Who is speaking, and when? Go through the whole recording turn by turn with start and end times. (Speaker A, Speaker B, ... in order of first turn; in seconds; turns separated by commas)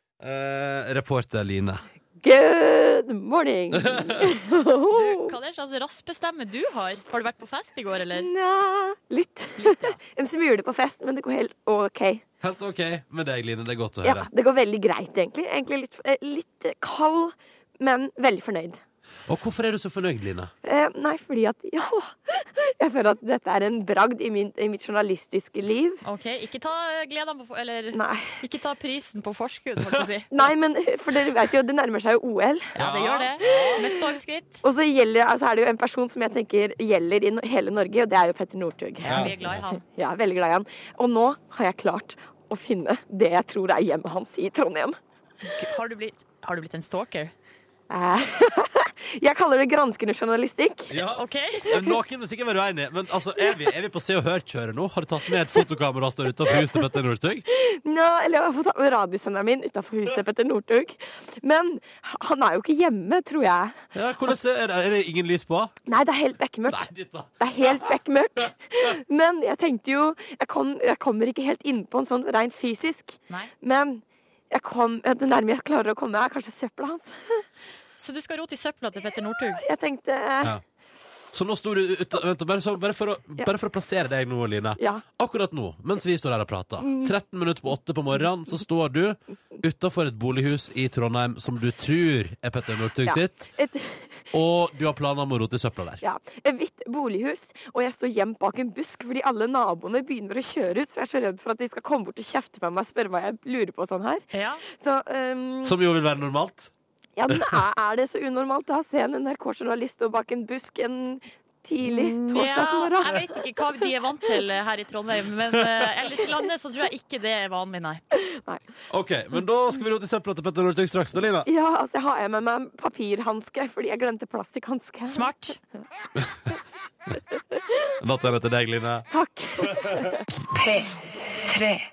Speaker A: 0.2-1.8, Speaker B: 2.2-5.3, Speaker A: 3.7-4.3, Speaker C: 4.9-8.3, Speaker B: 8.1-12.2, Speaker C: 9.6-10.0, Speaker A: 12.4-14.3, Speaker B: 14.0-18.8, Speaker A: 19.3-20.5, Speaker B: 20.6-26.0, Speaker C: 26.0-30.4, Speaker B: 27.9-28.4, Speaker B: 30.3-32.7, Speaker C: 32.8-34.6, Speaker A: 32.8-33.8, Speaker B: 34.6-45.0, Speaker C: 39.0-39.8, Speaker A: 39.1-39.6, Speaker C: 45.4-47.3, Speaker B: 47.9-51.0, Speaker A: 50.9-57.4, Speaker C: 51.1-51.7, Speaker B: 57.5-63.8, Speaker A: 63.9-65.7, Speaker B: 65.9-77.4, Speaker A: 66.7-68.0, Speaker C: 78.0-79.6, Speaker B: 79.5-80.6, Speaker A: 81.3-93.5, Speaker B: 84.8-85.0, Speaker B: 86.8-87.1, Speaker B: 93.0-94.1, Speaker A: 94.3-96.0, Speaker B: 96.0-105.8, Speaker C: 104.3-104.6, Speaker A: 105.6-106.7, Speaker B: 107.2-113.3, Speaker A: 107.3-107.6, Speaker C: 111.8-118.0, Speaker A: 115.5-115.8, Speaker B: 118.3-118.6, Speaker A: 118.9-121.5, Speaker B: 121.5-125.3, Speaker C: 125.1-125.6, Speaker A: 128.0-129.1, Speaker B: 129.1-130.2, Speaker A: 129.7-130.0